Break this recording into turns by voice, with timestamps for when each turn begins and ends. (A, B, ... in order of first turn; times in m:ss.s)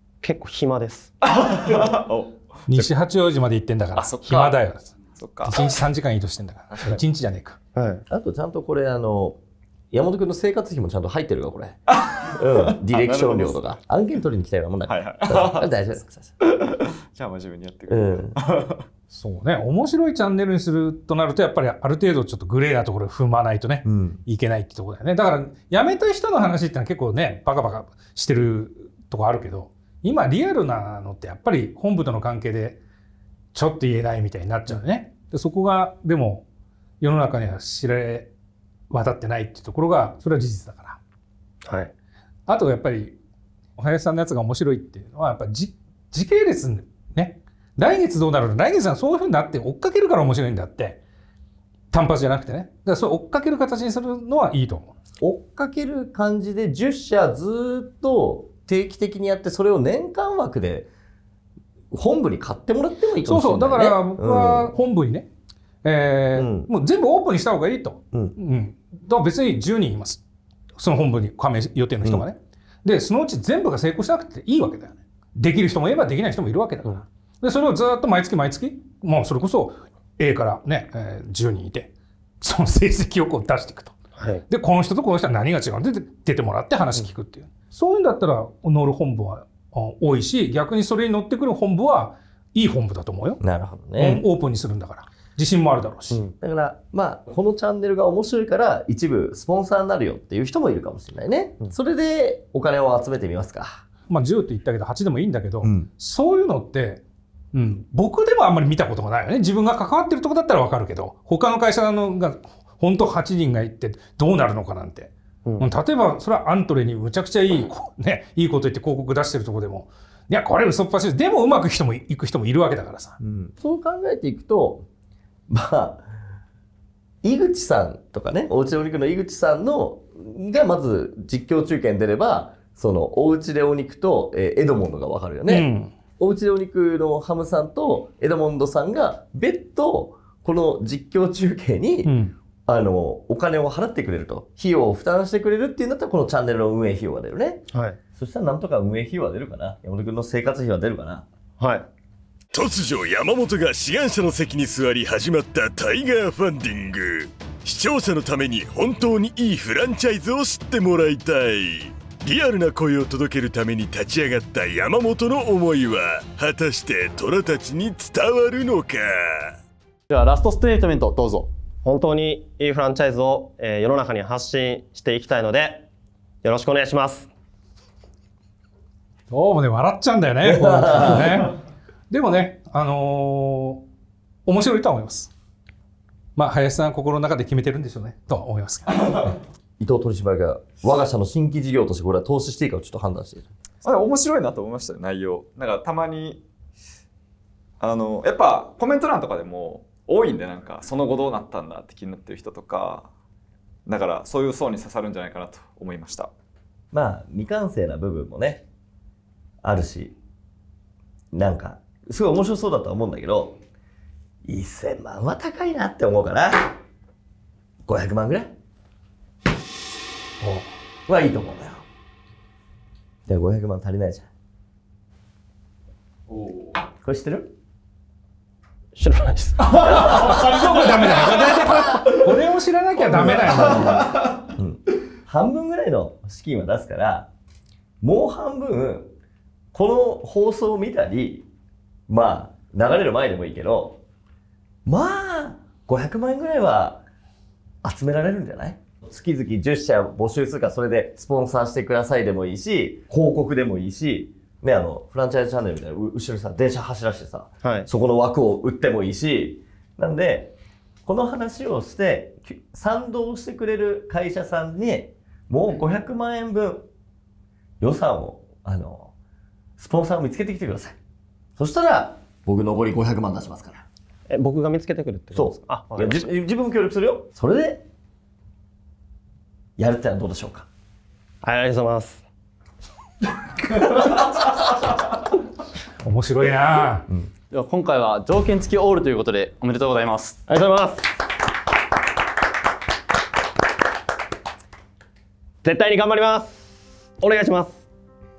0:00.2-0:01.1 A
0:01.2-0:02.9 B
0:02.7-0:04.9 C
0:04.0-0:04.4 B
0:05.2-0:05.6 B
0:05.4-0:07.6 C
0:06.7-0:07.0 B
0:07.8-0:08.0 A
0:08.1-0:09.4 D
0:09.9-0:16.4 D
0:12.9-0:13.6 B
0:14.9-0:15.7 B
0:16.4-0:18.8 B
0:17.9-0:18.4 D
0:19.1-0:32.8 C
0:23.8-0:24.2 D
0:33.5-0:36.4 C
0:37.0-0:38.3 C
0:38.9-0:41.0 C
0:41.6-0:41.9 A
0:42.5-0:43.2 C
0:43.8-0:51.0 C
0:51.9-0:54.9 C
0:55.2-1:00.9 D
1:01.9-1:04.7 D
1:03.2-1:05.3 C
1:05.8-1:10.2 C
1:06.3-1:06.7 D
1:10.8-1:24.0 C
1:24.2-1:24.4 A
1:24.5-1:33.4 C
1:33.4-1:34.2 D
1:34.0-1:36.2 C
1:36.4-1:43.8 D
1:44.1-1:47.0 C
1:45.6-1:45.9 D
1:47.5-2:03.2 C
1:55.4-1:55.7 A
2:03.2-2:04.9 D
2:05.5-2:06.1 D
2:07.2-2:22.2 D
2:15.5-2:15.9 C
2:22.0-2:22.3 C
2:22.7-2:27.6 D
2:27.7-2:28.0 A
2:28.2-2:31.3 D
2:31.6-2:31.9 A
2:32.5-2:49.6 E
2:50.1-2:51.5 F
2:51.8-2:55.9 A
2:56.4-2:57.3 A
2:59.3-3:01.6 C
3:00.4-3:01.3 D
3:02.1-3:03.8 C
3:04.5-3:05.3 C
3:06.4-3:09.3 C
3:09.3-3:13.5 D
3:13.8-3:16.4 B
3:17.8-3:23.1 B
3:23.9-3:26.3 B
3:26.9-3:28.6 D
3:29.6-3:30.2 D
3:31.3-3:33.6 D
3:34.5-3:36.8 D
3:37.9-3:38.5 D
3:40.4-3:40.7 C
3:41.1-3:41.8 D
3:43.3-3:44.3 D
3:47.0-3:47.5 D
3:49.0-3:51.1 A
3:49.7-3:54.1 C
3:53.0-3:57.3 D
3:58.0-3:59.1 D
3:59.7-4:01.4 D
4:02.1-4:04.0 D
4:04.9-4:07.0 D
4:07.8-4:20.6 D
4:17.6-4:17.9 A
4:21.1-4:26.9 D
4:27.8-4:29.1 D
4:29.8-4:31.0 D
4:31.6-4:33.8 D
4:34.3-4:36.3 A
4:35.3-4:37.8 D
4:39.8-4:40.7 D
4:41.4-4:42.2 A
4:46.0-4:47.1 C
4:47.5-4:50.4 F
4:50.5-4:51.0 A
4:55.6-4:56.6 A
4:57.2-4:57.8 A